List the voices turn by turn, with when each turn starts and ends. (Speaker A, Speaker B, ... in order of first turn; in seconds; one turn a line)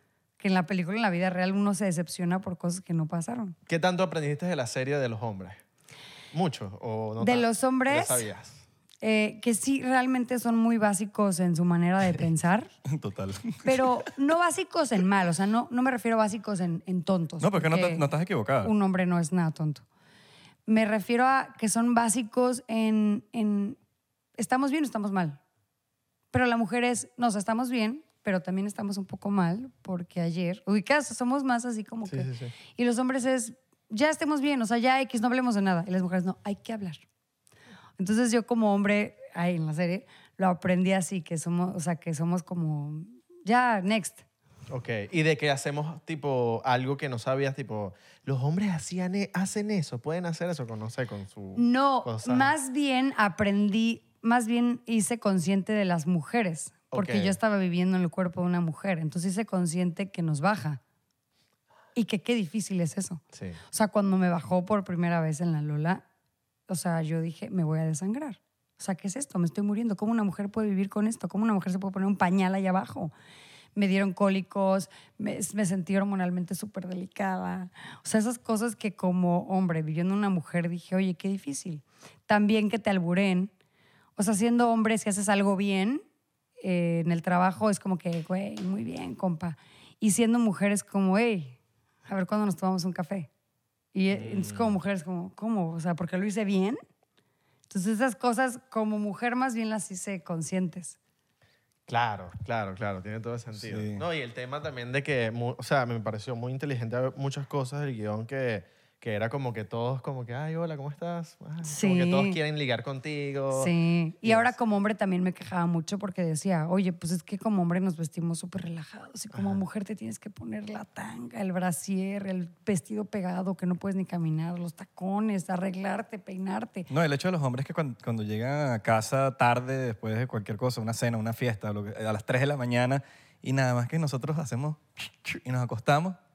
Speaker A: 0.4-3.6
Speaker B: 3.7-5.6
Speaker B: 6.3-8.6
Speaker A: 7.2-8.3
Speaker A: 9.0-12.7
Speaker C: 12.9-14.1
Speaker A: 13.6-18.1
Speaker C: 17.4-18.7
Speaker A: 18.6-19.8
Speaker A: 20.7-23.8
Speaker A: 24.4-25.4
Speaker A: 26.3-37.0
Speaker B: 32.1-32.5
Speaker A: 38.0-44.2
Speaker B: 44.7-52.5
Speaker A: 51.6-60.8
Speaker B: 56.9-57.4
Speaker A: 62.0-66.0
Speaker B: 63.3-63.6
Speaker A: 66.7-73.1
Speaker A: 73.8-83.5
Speaker A: 84.2-86.0
Speaker A: 86.6-93.3
Speaker A: 93.9-96.8
Speaker B: 94.1-94.8
Speaker A: 97.7-101.0
Speaker B: 101.9-114.5
Speaker C: 103.6-104.0
Speaker A: 111.6-112.4
Speaker A: 113.5-126.9
Speaker B: 119.3-119.6
Speaker C: 126.9-136.2